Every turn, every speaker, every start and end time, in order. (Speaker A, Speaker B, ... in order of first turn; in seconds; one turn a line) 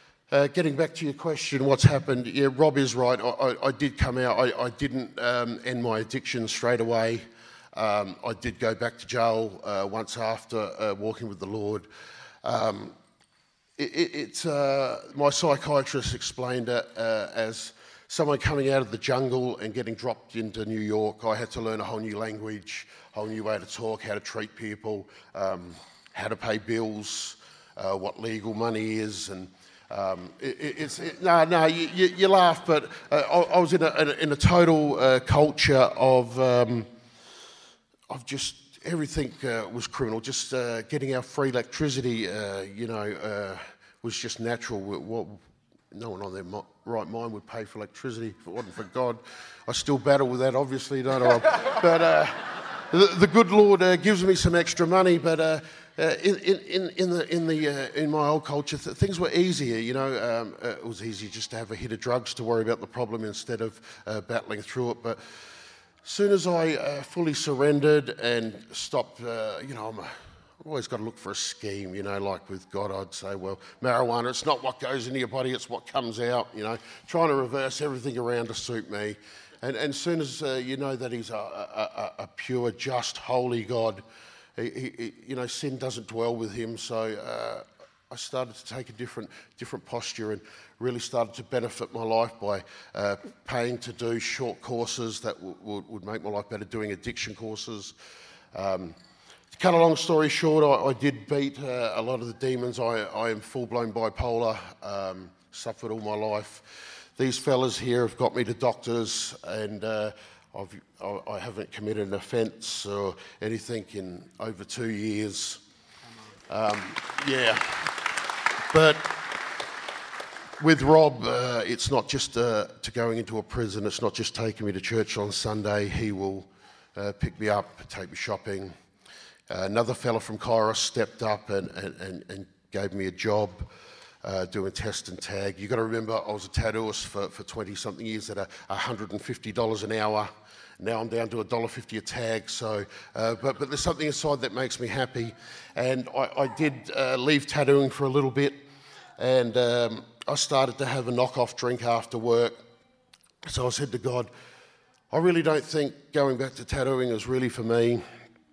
Speaker A: 0.3-11.9
Speaker A: 12.4-12.9
Speaker A: 13.8-36.9
Speaker A: 38.1-65.2
Speaker A: 66.0-84.0
Speaker A: 84.5-98.0
Speaker A: 98.5-99.0
Speaker A: 99.5-115.6
Speaker A: 116.5-119.4
Speaker A: 120.6-128.7
Speaker A: 129.5-133.7
Speaker A: 134.2-148.6
Speaker A: 149.2-152.6
Speaker A: 153.4-154.3
Speaker A: 155.1-158.0